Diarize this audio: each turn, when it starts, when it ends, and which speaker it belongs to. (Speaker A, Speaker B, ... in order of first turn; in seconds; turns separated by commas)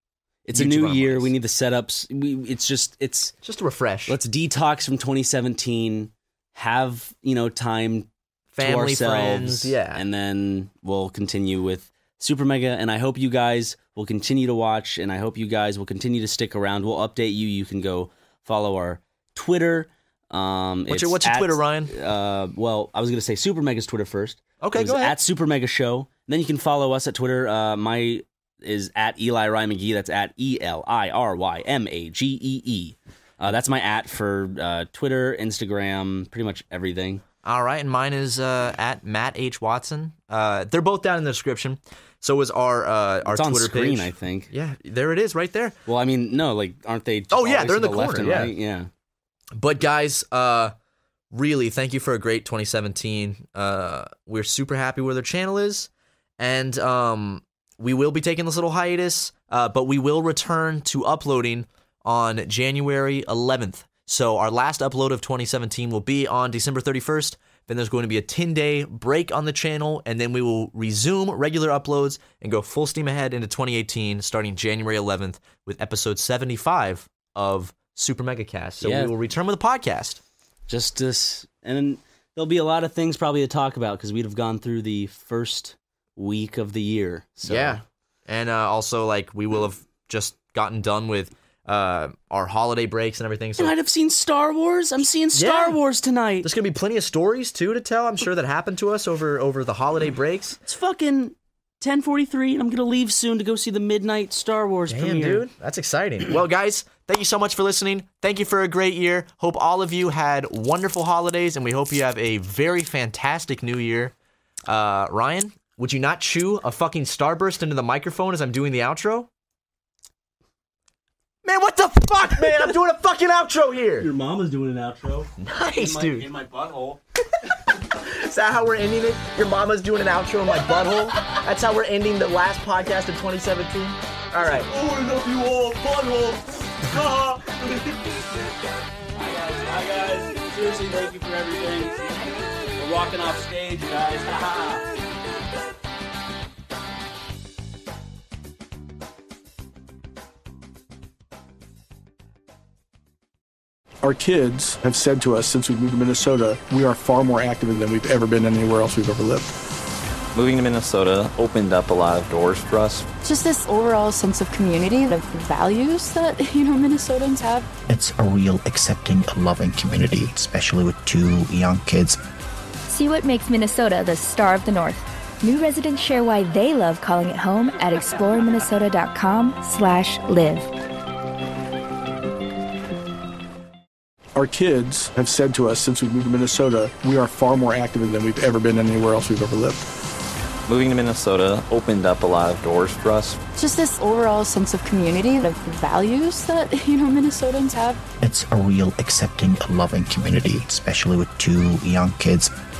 Speaker A: 0.5-3.3, Speaker B: 0.5-1.3, Speaker B: 3.4-4.2, Speaker A: 4.1-37.2, Speaker B: 8.5-10.0, Speaker B: 20.9-21.9, Speaker B: 24.6-25.1, Speaker B: 37.4-45.7, Speaker A: 43.2-44.5, Speaker A: 45.9-48.9, Speaker B: 47.3-48.5, Speaker B: 49.5-50.7, Speaker B: 51.3-80.2, Speaker A: 78.8-79.1, Speaker A: 80.7-87.8, Speaker B: 87.5-93.7, Speaker A: 93.6-96.5, Speaker B: 95.3-95.8, Speaker B: 96.4-100.6, Speaker A: 100.6-105.5, Speaker B: 104.9-114.1, Speaker B: 114.7-119.3, Speaker B: 121.4-124.1, Speaker A: 124.0-127.0, Speaker B: 125.4-126.3, Speaker B: 128.0-134.7, Speaker A: 130.5-131.4, Speaker A: 134.3-138.2, Speaker A: 139.2-144.8, Speaker C: 154.0-159.5, Speaker D: 160.3-163.1, Speaker E: 163.2-167.7, Speaker F: 167.9-172.2, Speaker G: 172.9-180.7, Speaker C: 184.3-189.8, Speaker D: 190.7-193.4, Speaker E: 193.6-198.0, Speaker F: 198.2-202.5